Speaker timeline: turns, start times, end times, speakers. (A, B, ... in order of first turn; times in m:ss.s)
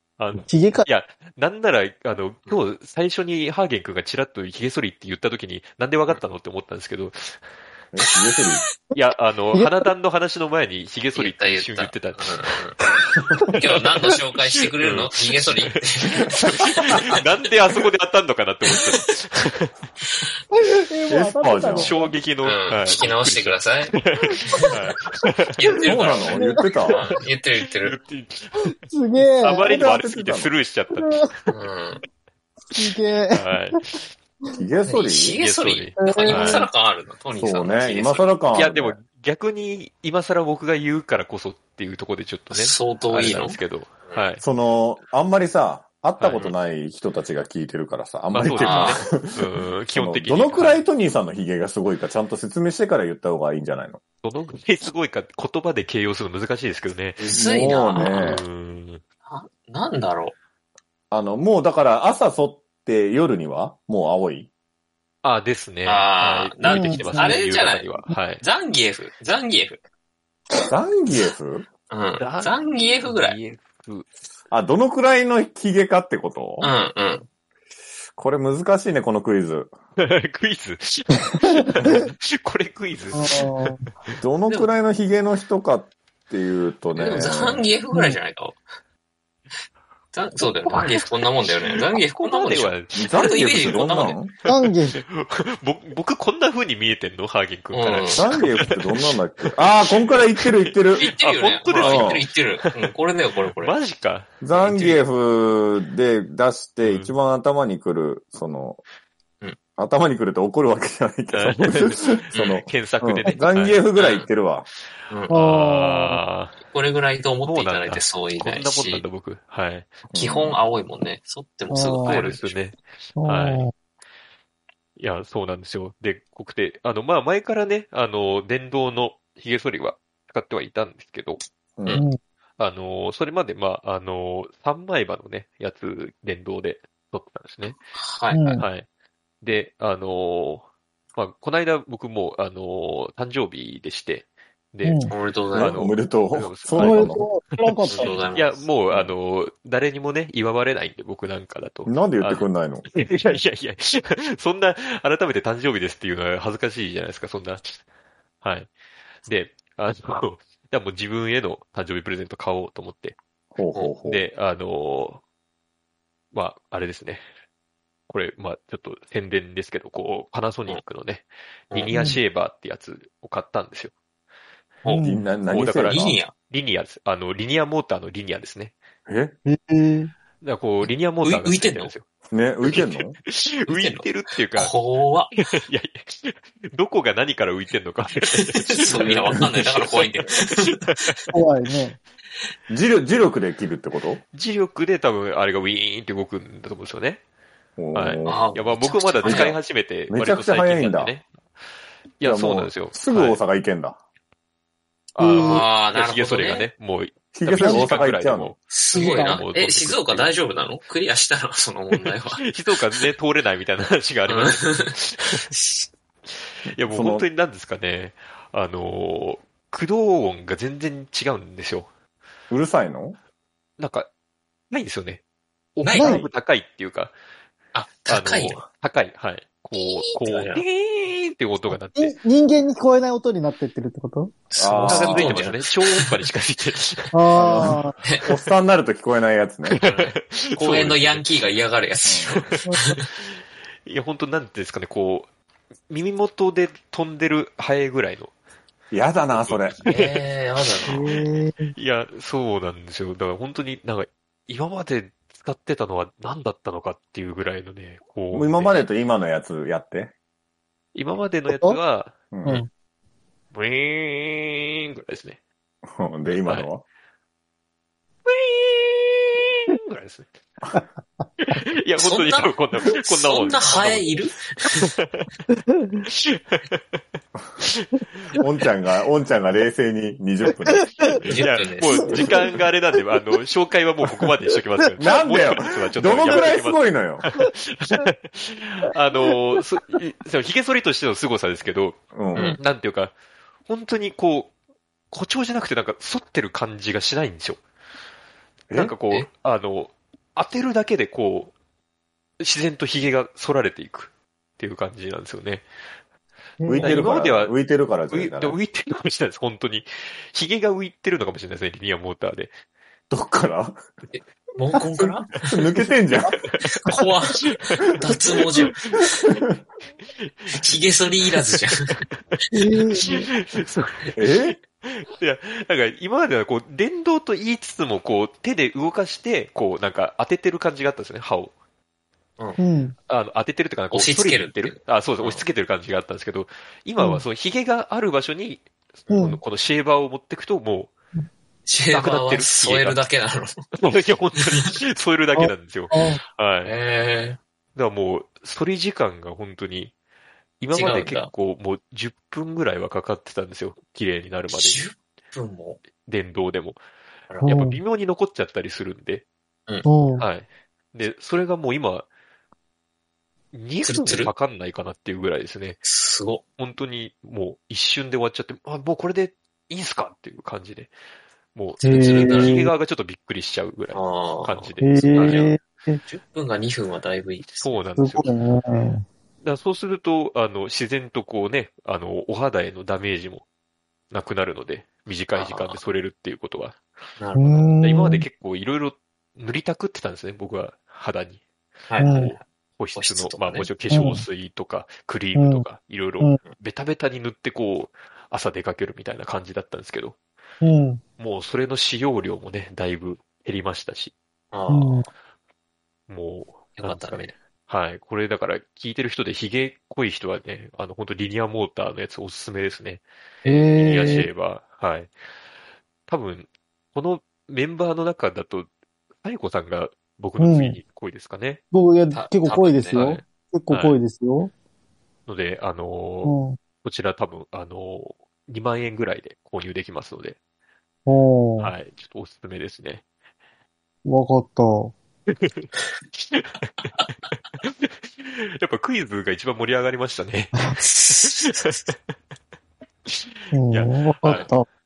0:00.2-0:07.4 A
0:00.5-0:00.9 B
0:07.9-0:08.6 C
0:08.9-0:12.6 A
0:11.1-0:12.8 D
0:13.5-0:17.1 D
0:14.8-0:19.7 A
0:20.6-0:22.1 B
0:21.1-0:21.9 C
0:21.6-0:25.7 A
0:22.4-0:23.9 D
0:25.6-0:28.0 D
0:25.8-0:27.0 C
0:26.3-0:26.6 B
0:27.6-0:28.7 A
0:28.6-0:29.7 B
0:29.4-0:31.3 A
0:29.6-0:30.5 C
0:31.0-0:31.3 B
0:31.5-0:32.0 D
0:32.7-0:33.6 B
0:33.3-0:34.0 A
0:34.5-0:35.4 C
0:34.8-0:38.3 D
0:35.4-0:36.7 A
0:36.0-0:36.7 B
0:37.3-0:39.0 C
0:38.5-0:44.4 A
0:42.5-0:44.2 D
0:44.4-0:54.0 C
0:46.2-0:46.5 A
0:48.3-0:50.8 A
0:48.6-0:49.0 D
0:54.2-0:57.2 A
0:57.2-0:58.4 D
0:57.3-0:58.4 C
0:58.0-0:59.0 A
0:59.2-1:00.3 D
1:01.1-1:04.5 C
1:05.2-1:08.4 A
1:05.8-1:09.8 D
1:06.6-1:07.4 B
1:10.7-1:11.7 C
1:11.9-1:13.4 D
1:12.2-1:14.0 A
1:14.5-1:16.7 C
1:16.6-1:17.3 D
1:18.2-1:19.7 C
1:20.0-1:24.2 A
1:23.1-1:23.8 B
1:24.2-1:27.7 C
1:26.9-1:28.6 D
1:30.1-1:34.2 D
1:30.7-1:31.1 A
1:31.7-1:33.8 A
1:32.9-1:34.3 C
1:34.4-1:35.0 B
1:34.5-1:42.9 A
1:37.7-1:38.2 D
1:38.1-1:41.1 C
1:41.0-1:43.7 D
1:41.7-1:42.2 C
1:43.6-1:44.9 A
1:44.4-1:48.8 C
1:44.6-1:44.9 D
1:46.8-1:47.1 A
1:49.8-1:54.7 C
1:51.3-1:53.8 A
1:52.3-1:52.6 D
1:54.0-1:54.3 D
1:55.3-1:56.2 B
1:55.3-1:56.6 A
1:56.6-1:59.0 D
1:57.4-2:00.0 A
2:00.1-2:00.6 C
2:00.1-2:02.6 D
2:01.7-2:02.2 B
2:02.0-2:03.6 A
2:03.2-2:03.7 B
2:05.0-2:11.4 A
2:11.8-2:12.0 C
2:12.6-2:17.8 A
2:18.0-2:18.6 D
2:18.3-2:18.6 B
2:18.6-2:18.8 A
2:19.4-2:20.6 A
2:21.2-2:37.8 A
2:24.8-2:25.1 B
2:25.1-2:25.8 D
2:25.5-2:27.2 C
2:26.8-2:28.2 B
2:27.9-2:28.6 D
2:31.8-2:32.8 C
2:38.4-2:38.7 A
2:39.2-2:43.2 A
2:43.5-2:44.2 C
2:44.0-2:45.2 A
2:46.3-2:47.2 A
2:48.1-2:53.9 A
2:51.9-2:52.2 B
2:54.8-2:55.1 D
2:54.8-2:55.2 B
2:55.0-2:56.2 C
2:55.5-2:58.7 A
2:55.8-2:56.3 D
2:59.1-2:59.4 C
2:59.5-3:00.1 B
3:00.4-3:02.0 A
3:01.2-3:01.9 D
3:02.3-3:03.2 C
3:02.6-3:02.9 D
3:03.3-3:04.7 A
3:03.7-3:05.5 D
3:05.4-3:11.2 A
3:08.3-3:11.2 D
3:11.3-3:12.0 B
3:12.7-3:14.2 C
3:14.3-3:17.2 A
3:17.8-3:18.5 C
3:17.9-3:21.2 A
3:18.2-3:19.5 D
3:19.2-3:21.1 C
3:22.2-3:23.4 A
3:22.2-3:24.0 C
3:25.1-3:30.3 A
3:25.2-3:25.6 B
3:25.3-3:26.7 D
3:27.3-3:28.5 C
3:27.6-3:27.9 B
3:28.7-3:32.5 D
3:28.9-3:29.4 B
3:31.9-3:35.5 A
3:34.3-3:35.0 D
3:35.5-3:35.9 D
3:36.4-3:41.9 A
3:36.8-3:37.3 C
3:42.5-3:43.2 C
3:43.8-3:44.1 A
3:44.7-3:45.2 A
3:45.8-3:47.1 A
3:45.8-3:46.2 D
3:45.9-3:46.2 B
3:47.7-3:48.6 D
3:48.1-3:52.1 A
3:49.7-3:50.6 D
3:51.9-3:54.4 B
3:54.5-3:56.2 D
3:54.6-3:55.4 C
3:54.8-3:57.2 A
3:57.1-3:57.9 B
3:57.3-3:59.8 C
3:59.6-4:01.3 A
3:59.8-4:03.0 D
4:02.0-4:02.3 C
4:02.3-4:03.2 A
4:03.8-4:05.3 A
4:05.9-4:08.3 A
4:08.9-4:09.8 C
4:09.3-4:10.2 A
4:09.8-4:11.0 D
4:10.8-4:11.7 B
4:11.7-4:18.8 A
4:18.3-4:20.1 C
4:20.9-4:22.1 A
4:21.5-4:21.8 B
4:22.3-4:22.6 C
4:23.5-4:25.4 A
4:25.9-4:26.8 C
4:26.3-4:26.7 A
4:28.2-4:30.3 A
4:31.4-4:35.3 A
4:32.0-4:34.8 D
4:36.1-4:37.0 A
4:38.3-4:41.4 C
4:41.2-4:42.2 D
4:41.4-4:52.0 A
4:42.0-4:42.5 B
4:45.0-4:47.2 C
4:52.1-4:52.6 C
4:52.6-4:53.1 A
4:53.7-4:54.5 A
4:55.1-4:57.6 A
4:58.7-5:01.5 A
5:02.4-5:05.6 A
5:06.6-5:07.0 B
5:06.6-5:08.6 C
5:06.8-5:07.5 A
5:08.1-5:12.5 A
5:13.1-5:13.8 C
5:14.1-5:15.4 D
5:15.0-5:16.4 C
5:16.5-5:19.4 D
5:17.4-5:17.9 A
5:20.2-5:20.6 A
5:20.5-5:21.9 D
5:21.4-5:22.2 A
5:22.5-5:23.3 B
5:23.0-5:24.2 A
5:24.1-5:24.6 C
5:24.8-5:31.5 A
5:32.6-5:33.0 B
5:33.1-5:40.9 A
5:33.9-5:35.4 D
5:39.1-5:39.4 B
5:41.7-5:43.6 D
5:41.9-5:43.0 A
5:43.7-5:46.7 A
5:44.4-5:44.7 D
5:45.4-5:46.2 B
5:46.6-5:47.4 D
5:47.7-5:49.9 A
5:50.6-5:54.8 A
5:50.7-5:51.3 D
5:54.5-5:55.8 D
5:56.0-5:56.8 A
5:57.3-5:57.6 D
5:57.4-5:57.8 B
5:57.4-5:59.2 A
5:59.8-6:00.2 B
6:00.2-6:02.0 A
6:03.5-6:05.8 A
6:03.8-6:04.3 D
6:05.8-6:06.4 D
6:06.6-6:10.9 A
6:11.5-6:15.5 A
6:11.8-6:12.6 D
6:11.8-6:12.7 B
6:13.9-6:15.5 D
6:14.8-6:16.0 B
6:16.1-6:17.8 D
6:17.6-6:18.3 A
6:18.0-6:19.0 B
6:19.4-6:23.4 A
6:24.1-6:26.8 A
6:25.3-6:25.8 D
6:27.2-6:27.7 D
6:27.4-6:28.2 B
6:27.8-6:31.4 A
6:31.9-6:32.4 D
6:31.9-6:40.2 A
6:32.0-6:32.3 B
6:33.0-6:33.7 D
6:33.9-6:34.2 B
6:35.3-6:35.6 B
6:40.6-6:41.0 B
6:41.2-6:44.1 A
6:44.5-6:45.0 D
6:44.7-6:45.1 B
6:46.1-6:53.0 A
6:46.8-6:47.3 D
6:53.4-6:54.3 D
6:53.4-6:54.3 B
6:53.8-6:55.1 A
6:56.1-6:58.7 A
6:59.2-7:01.6 A
7:00.4-7:00.8 B
7:01.7-7:04.5 B
7:02.1-7:03.0 D
7:02.9-7:04.0 A
7:05.3-7:10.4 A
7:06.2-7:06.6 B
7:11.1-7:11.7 B
7:11.6-7:13.0 A
7:14.0-7:14.9 B
7:15.3-7:16.9 A
7:17.6-7:21.9 A
7:20.8-7:21.6 D
7:23.1-7:24.5 A
7:23.5-7:24.6 B